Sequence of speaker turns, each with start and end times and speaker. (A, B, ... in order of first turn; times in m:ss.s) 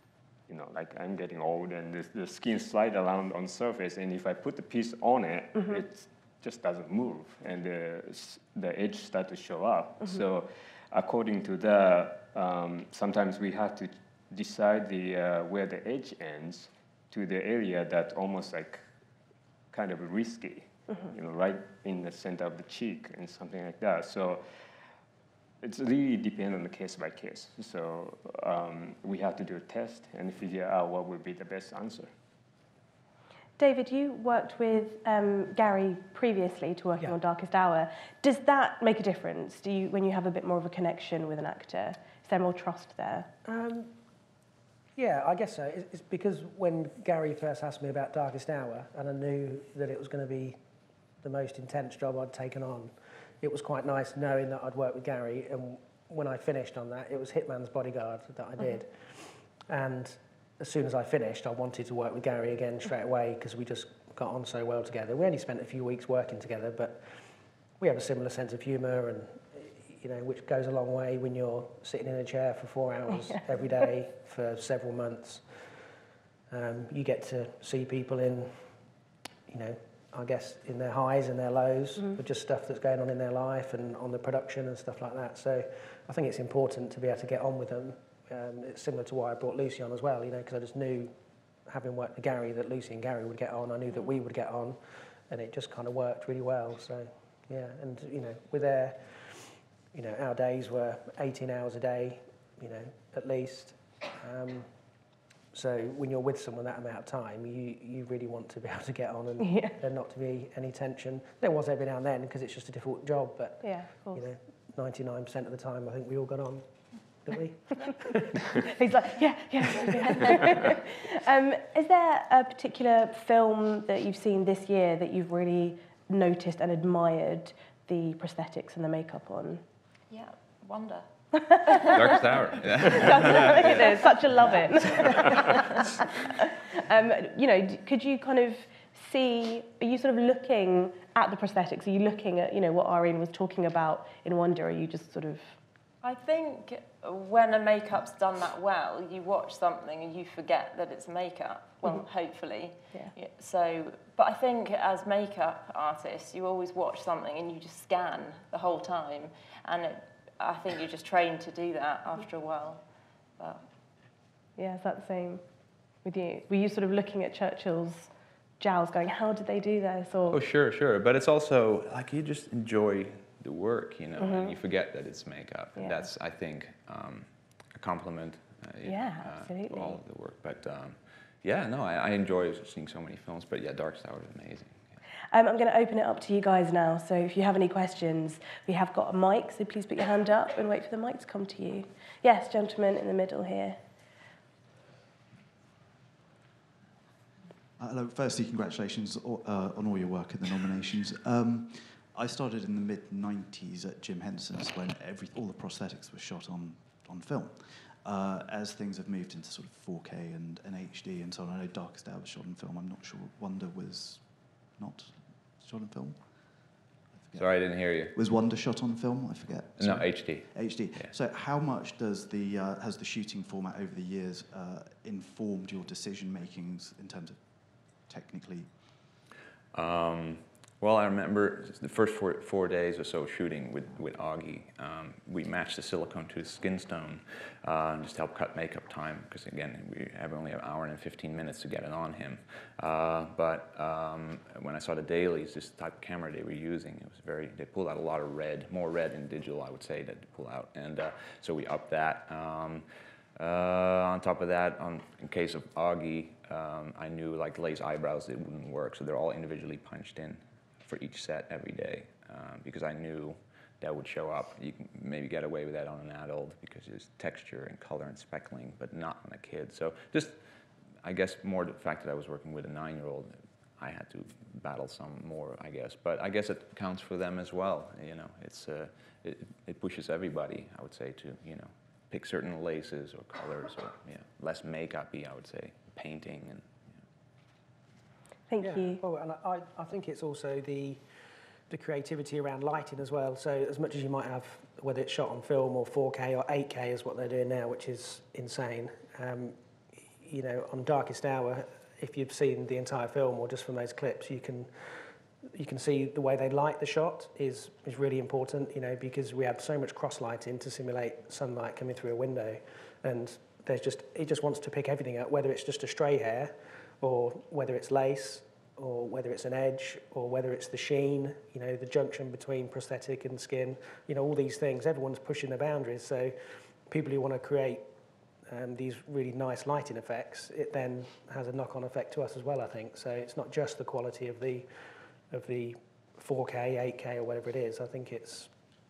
0:00.5-0:18.8 A
0:19.7-0:24.4 A
0:25.6-0:32.1 A
0:33.6-0:43.3 B
0:43.4-0:43.9 C
0:45.0-0:50.6 C
0:51.2-1:07.2 C
1:07.8-1:15.4 C
1:16.5-1:18.7 C
1:19.5-1:31.1 C
1:31.7-1:44.7 C
1:45.5-1:56.6 C
1:49.4-1:49.8 B
1:53.6-1:54.2 B
1:57.2-1:58.4 C
1:58.6-2:09.6 B
2:10.1-2:12.3 D
2:11.4-2:12.0 B
2:11.9-2:13.8 E
2:12.8-2:25.6 B
2:13.6-2:13.9 D
2:26.0-2:42.8 D
2:43.4-2:43.6 D
2:44.6-2:45.4 B
2:46.0-2:50.4 B
2:50.3-3:04.8 E
2:54.2-2:54.6 B
2:55.8-2:56.0 B
2:58.8-3:00.0 B
3:05.3-3:13.8 B
3:17.8-3:48.8 F
3:37.3-3:38.2 E
3:39.8-3:41.1 E
3:49.7-4:12.8 E
4:13.4-4:30.4 E
4:31.0-4:46.9 E
4:48.5-4:49.0 B
4:48.6-4:51.0 C
4:51.7-5:26.4 C
5:26.9-5:27.8 C
5:28.5-5:34.7 C
5:35.3-5:38.5 C